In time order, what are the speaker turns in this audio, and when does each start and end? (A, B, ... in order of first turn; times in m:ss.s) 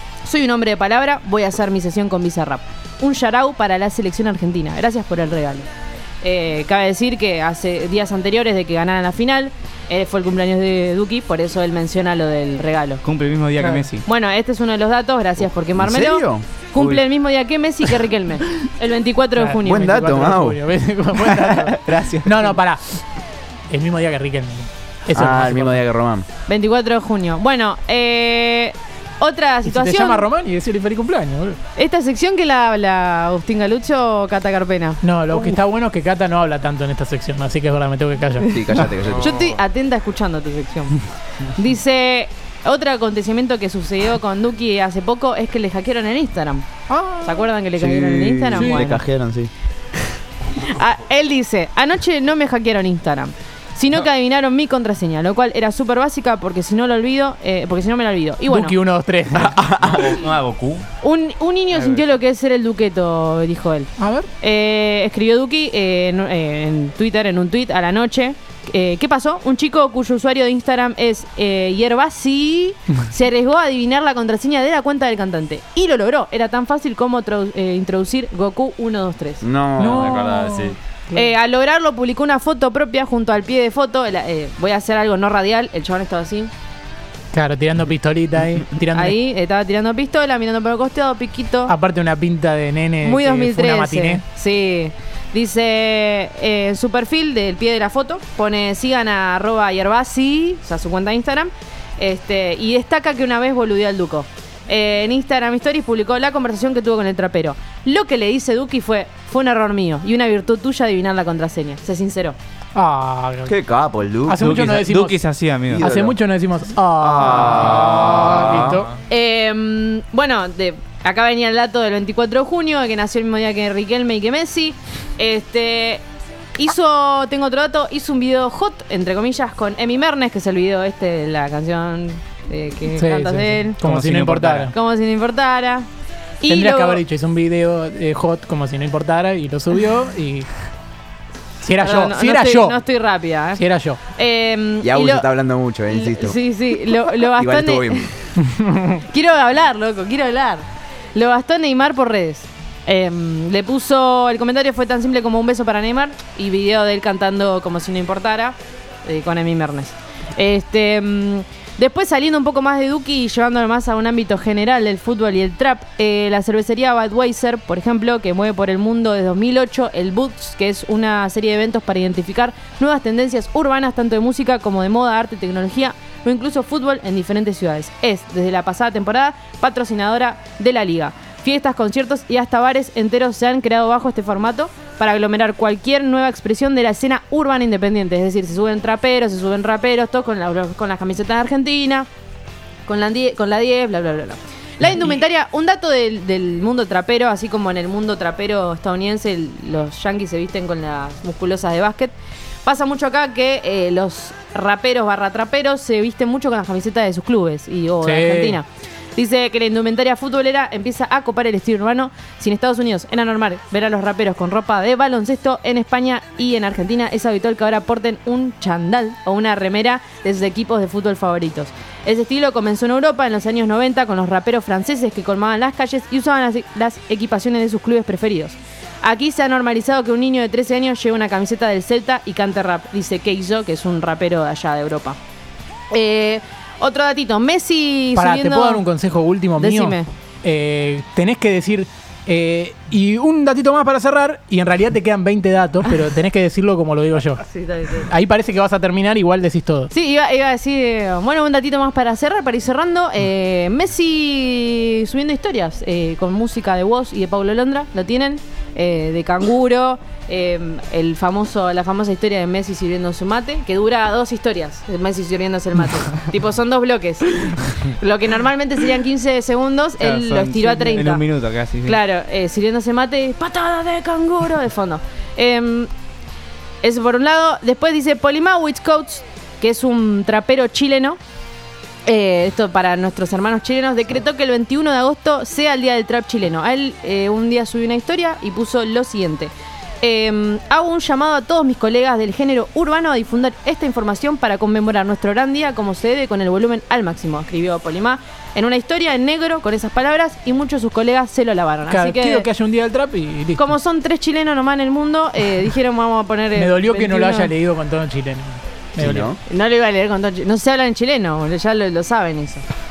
0:00.2-0:05.7 A
0:06.2-0:13.0 A
0:13.0-0:14.1 B
0:14.0-0:19.8 A
0:15.8-0:17.0 C
0:19.4-0:23.0 D
0:19.6-0:20.6 C
0:21.8-0:22.5 B
0:23.7-0:25.8 D
0:25.1-0:26.3 C
0:26.5-0:30.3 A
0:29.6-0:31.6 D
0:31.8-0:35.5 A
0:35.0-0:38.5 D
0:38.5-0:39.4 C
0:39.0-0:39.5 E
0:39.2-0:46.7 A
0:46.9-0:47.3 D
0:47.2-0:49.0 A
0:47.8-0:49.5 C
0:48.6-0:48.9 D
0:50.5-0:58.8 A
0:58.5-0:59.7 D
0:59.5-1:00.1 C
0:59.6-1:00.9 E
1:01.0-1:03.9 A
1:04.0-1:04.3 D
1:04.4-1:19.4 A
1:19.4-1:20.2 C
1:19.8-1:21.3 D
1:19.9-1:20.8 E
1:21.1-1:26.5 A
1:27.3-1:29.2 D
1:28.9-1:31.8 A
1:31.7-1:34.2 D
1:33.0-1:52.4 A
1:52.8-1:53.5 D
1:53.5-1:54.4 C
1:54.3-1:58.9 D
1:54.4-1:55.9 B
1:55.7-1:56.2 C
1:57.0-1:58.6 C
1:59.1-2:06.0 A
2:06.6-2:13.8 A
2:13.0-2:14.7 D
2:13.8-2:14.7 B
2:14.7-2:15.9 A
2:16.4-2:17.0 A
2:16.5-2:20.5 D
2:21.6-2:22.8 D
2:21.8-2:25.3 A
2:23.6-2:24.0 D
2:24.8-2:26.4 C
2:25.9-2:28.1 A
2:27.2-2:28.1 C
2:28.4-2:29.0 D
2:28.9-3:12.1 A
3:12.9-3:22.1 A
3:22.6-3:55.2 A
3:28.0-3:28.6 D
3:55.9-3:58.8 A
3:58.2-4:07.4 D
3:59.6-4:00.1 A
4:07.5-4:08.1 A
4:08.1-4:09.9 D
4:09.9-4:31.3 A
4:30.0-4:32.0 B
4:31.8-4:35.9 A
4:36.8-4:41.2 A
4:42.1-5:02.5 A
5:01.9-5:03.7 D
5:03.6-5:07.5 A
5:06.6-5:09.3 D
5:09.0-5:09.4 C
5:09.5-5:12.6 A